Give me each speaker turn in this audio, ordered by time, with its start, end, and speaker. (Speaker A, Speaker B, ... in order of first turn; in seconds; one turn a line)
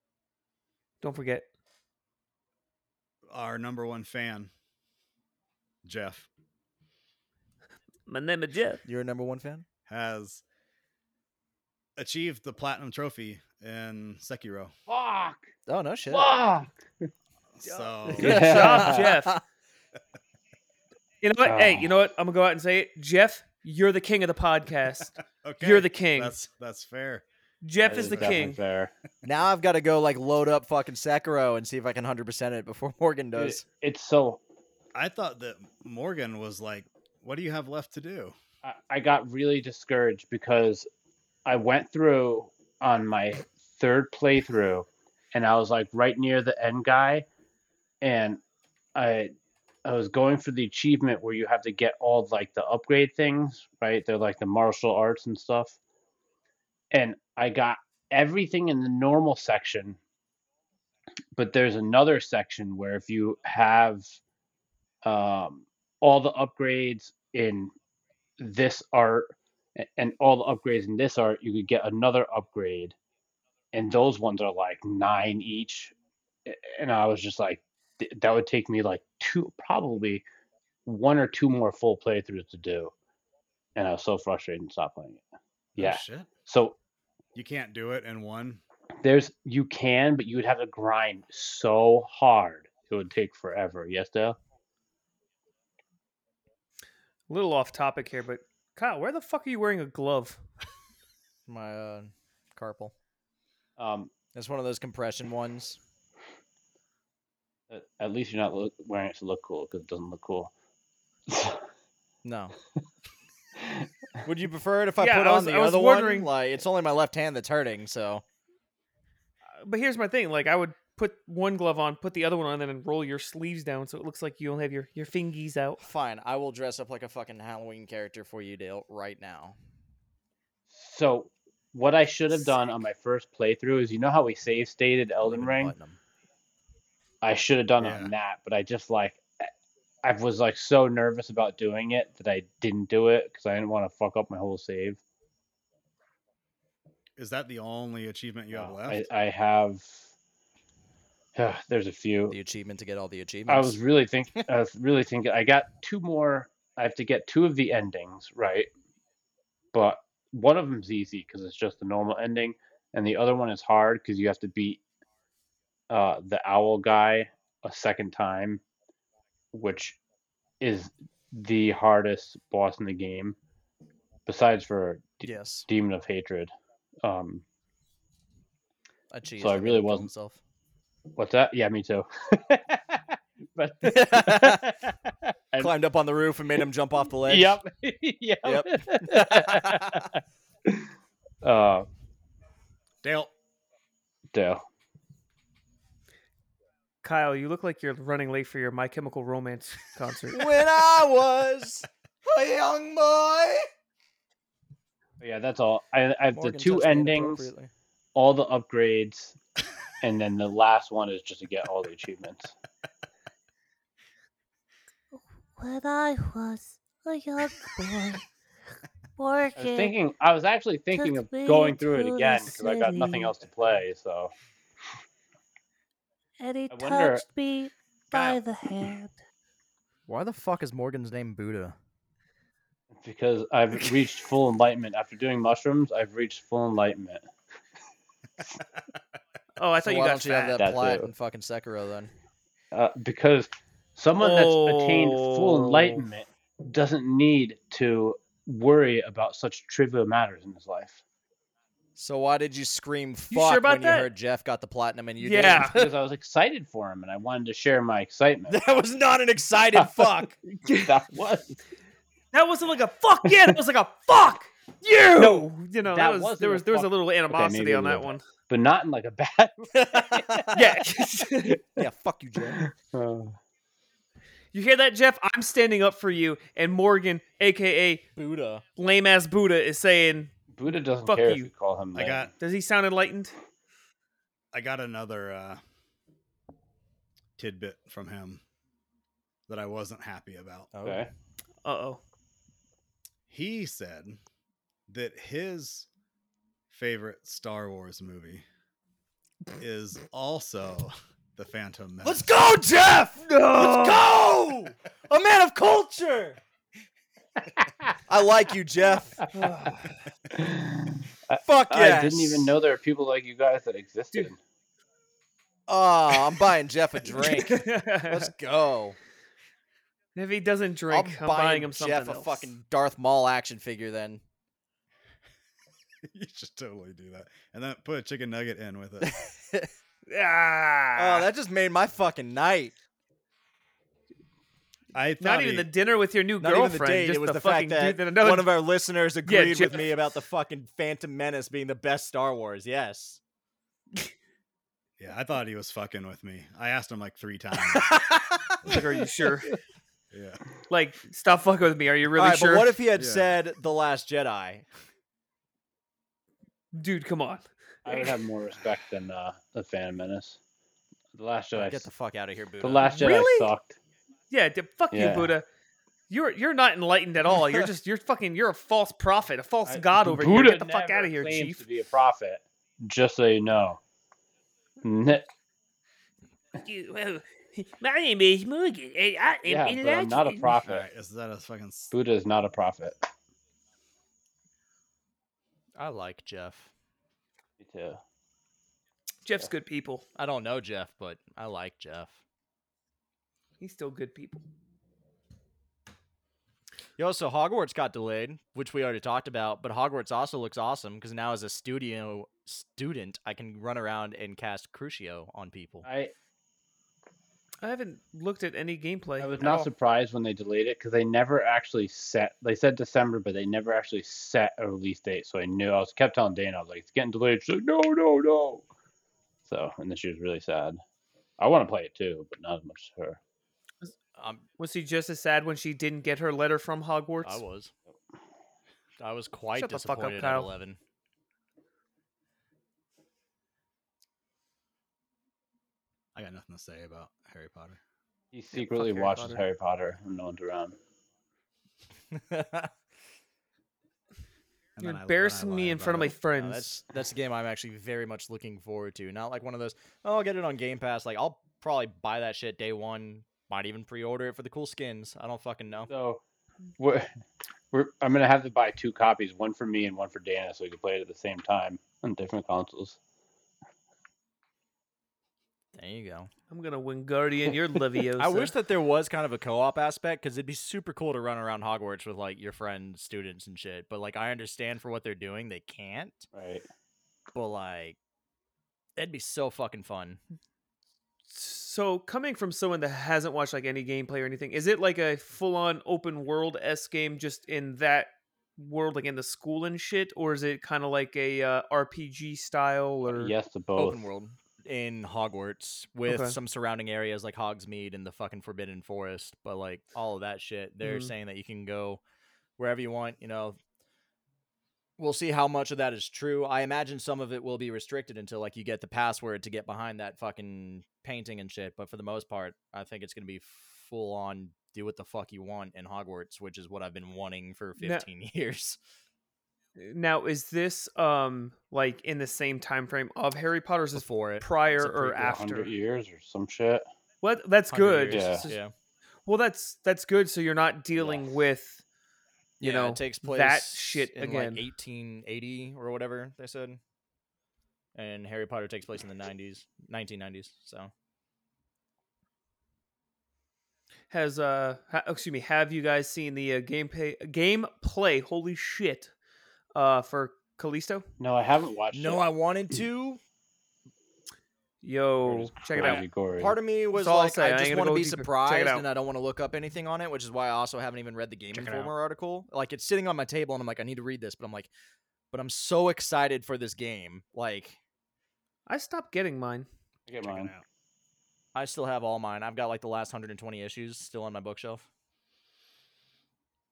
Speaker A: 1.0-1.5
Speaker B: 3.3-4.5
Speaker B: 5.8-6.3
Speaker A: 8.1-8.8
Speaker C: 8.8-9.6
Speaker B: 9.9-10.4
Speaker B: 12.0-14.7
Speaker D: 14.9-15.5
Speaker C: 15.7-16.3
Speaker D: 16.1-17.1
Speaker B: 17.5-18.4
Speaker A: 17.6-19.4
Speaker D: 18.1-19.1
Speaker C: 18.2-19.4
Speaker A: 21.2-26.4
Speaker D: 21.4-21.9
Speaker B: 25.3-27.2
Speaker A: 27.6-28.6
Speaker B: 27.9-28.3
Speaker D: 27.9-28.9
Speaker C: 29.2-33.6
Speaker D: 33.3-34.4
Speaker B: 34.9-38.4
Speaker D: 38.6-40.9
Speaker D: 41.5-47.3
Speaker D: 48.0-48.4
Speaker D: 48.9-49.3
Speaker D: 49.8-55.8
Speaker D: 56.9-60.0
Speaker D: 61.4-64.2
Speaker D: 65.0-67.7
Speaker D: 68.4-73.0
Speaker D: 73.7-75.9
Speaker D: 76.5-80.2
Speaker D: 80.8-82.9
Speaker D: 83.8-85.2
Speaker B: 85.8-86.3
Speaker D: 85.8-86.8
Speaker B: 87.3-88.6
Speaker D: 89.0-94.4
Speaker A: 97.3-100.4
Speaker C: 101.5-102.9
Speaker D: 103.8-104.1
Speaker C: 104.3-105.8
Speaker D: 107.7-110.5
Speaker D: 111.3-111.7
Speaker C: 112.2-112.5
Speaker D: 113.6-113.9
Speaker C: 114.2-118.2
Speaker A: 115.0-116.3
Speaker A: 119.6-125.8
Speaker C: 125.8-129.6
Speaker D: 130.7-135.7
Speaker C: 135.2-136.0
Speaker D: 137.2-139.5
Speaker B: 137.8-138.1
Speaker D: 140.0-145.0
Speaker B: 147.2-149.1
Speaker D: 148.5-150.1
Speaker D: 151.3-152.3
Speaker C: 152.3-153.8
Speaker D: 153.5-158.7
Speaker D: 159.7-164.8
Speaker D: 165.9-168.6
Speaker D: 169.5-170.0
Speaker D: 170.6-173.4
Speaker D: 174.2-176.5
Speaker C: 175.2-175.7
Speaker D: 177.0-177.4
Speaker C: 179.1-180.4
Speaker D: 179.4-180.1
Speaker D: 181.2-185.7
Speaker C: 183.8-184.8
Speaker C: 185.6-187.6
Speaker D: 187.2-190.9
Speaker C: 188.4-190.1
Speaker D: 191.4-191.9
Speaker B: 193.0-193.3
Speaker D: 194.3-194.6
Speaker A: 197.0-200.6
Speaker C: 200.3-203.7
Speaker D: 205.2-207.5
Speaker C: 206.3-207.7
Speaker D: 208.1-209.3
Speaker D: 210.0-212.5
Speaker E: 215.1-218.2
Speaker E: 219.2-219.9
Speaker D: 219.6-224.3
Speaker E: 220.9-223.3
Speaker E: 226.4-229.1
Speaker D: 226.7-227.2
Speaker B: 228.1-228.4
Speaker C: 230.1-231.8
Speaker D: 232.9-237.2
Speaker A: 239.6-240.7
Speaker C: 239.8-242.1
Speaker D: 240.6-241.1
Speaker D: 242.7-251.0
Speaker A: 244.2-246.0
Speaker C: 251.9-255.9
Speaker A: 253.3-254.1
Speaker A: 255.2-255.9
Speaker D: 255.7-258.6
Speaker C: 258.5-260.4
Speaker A: 260.6-260.9
Speaker D: 260.7-261.6
Speaker A: 262.3-268.2
Speaker D: 263.2-263.5
Speaker D: 265.1-270.7
Speaker C: 269.7-270.5
Speaker A: 270.5-271.6
Speaker C: 271.8-272.6
Speaker D: 272.5-273.4
Speaker A: 274.5-278.1
Speaker C: 278.2-278.6
Speaker A: 278.8-280.3
Speaker D: 280.5-282.3
Speaker A: 281.1-281.5
Speaker B: 281.9-282.3
Speaker A: 282.4-283.3
Speaker B: 284.5-285.6
Speaker B: 287.4-288.4
Speaker B: 289.5-290.7
Speaker C: 290.7-291.0
Speaker D: 290.8-291.1
Speaker A: 291.6-292.0
Speaker B: 293.3-294.2
Speaker B: 294.9-295.9
Speaker B: 296.7-298.4
Speaker B: 299.6-302.3
Speaker C: 302.0-306.4
Speaker A: 303.5-304.0
Speaker C: 308.1-309.3
Speaker A: 309.3-310.0
Speaker D: 310.3-314.4
Speaker C: 311.4-312.5
Speaker C: 315.7-319.0
Speaker A: 317.1-318.3
Speaker A: 320.1-322.5
Speaker C: 320.9-324.2
Speaker B: 326.1-329.2
Speaker C: 329.0-329.7
Speaker A: 330.1-331.3
Speaker C: 330.9-332.7
Speaker B: 334.9-335.7
Speaker A: 335.2-338.5
Speaker C: 336.4-343.2
Speaker A: 339.2-339.9
Speaker B: 345.0-347.9
Speaker C: 347.6-348.8
Speaker B: 348.6-348.9
Speaker A: 348.6-349.5
Speaker B: 350.1-350.4
Speaker A: 350.7-352.8
Speaker C: 352.1-354.6
Speaker B: 353.0-353.3
Speaker A: 356.7-358.2
Speaker D: 357.8-360.4
Speaker D: 361.1-361.9
Speaker C: 361.6-363.5
Speaker D: 362.6-363.8
Speaker A: 364.3-365.4
Speaker D: 364.9-365.3
Speaker A: 366.1-371.6
Speaker C: 367.4-367.7
Speaker D: 369.6-373.8
Speaker D: 374.8-375.3
Speaker A: 376.6-380.6
Speaker D: 379.4-380.8
Speaker B: 380.6-381.9
Speaker D: 381.9-383.0
Speaker C: 385.8-386.7
Speaker D: 387.6-388.0
Speaker A: 389.2-390.0
Speaker C: 390.1-392.1
Speaker A: 393.6-394.4
Speaker C: 397.0-405.8
Speaker D: 405.8-406.1
Speaker A: 407.6-409.7
Speaker D: 409.2-418.6
Speaker D: 419.4-420.8
Speaker D: 421.4-423.2
Speaker C: 424.2-424.4
Speaker A: 424.6-427.4
Speaker C: 427.2-427.7
Speaker C: 429.0-430.8
Speaker A: 429.5-430.5
Speaker B: 436.1-437.8
Speaker D: 438.3-440.8
Speaker A: 438.5-439.4
Speaker C: 442.1-442.7
Speaker B: 444.8-446.1
Speaker A: 444.8-446.7
Speaker C: 446.4-455.9
Speaker D: 455.9-456.2
Speaker D: 456.8-457.1
Speaker D: 457.7-463.0
Speaker C: 465.7-466.3
Speaker A: 466.5-468.5
Speaker C: 468.2-476.3
Speaker D: 476.3-476.6
Speaker C: 477.3-478.0
Speaker C: 479.0-480.2
Speaker A: 481.3-493.3
Speaker D: 493.1-494.0
Speaker C: 493.8-502.0
Speaker A: 496.1-496.4
Speaker A: 500.8-501.1
Speaker C: 502.6-503.6
Speaker C: 505.0-518.8
Speaker A: 517.8-518.0
Speaker A: 519.8-525.7
Speaker C: 523.9-524.5
Speaker D: 524.7-526.8
Speaker A: 527.2-528.6
Speaker C: 527.7-528.7
Speaker D: 528.1-528.5
Speaker A: 529.2-531.8
Speaker D: 531.0-531.3
Speaker C: 532.6-536.8
Speaker A: 532.6-534.6
Speaker C: 537.9-540.9
Speaker A: 544.1-549.1
Speaker A: 549.7-551.1
Speaker D: 551.2-552.2
Speaker C: 551.9-553.2
Speaker A: 554.8-556.0
Speaker D: 555.2-556.5
Speaker C: 555.8-564.7
Speaker A: 556.9-558.8
Speaker B: 561.5-561.9
Speaker C: 565.3-567.8
Speaker A: 568.7-569.7
Speaker D: 570.1-570.5
Speaker B: 570.2-570.6
Speaker C: 571.5-574.8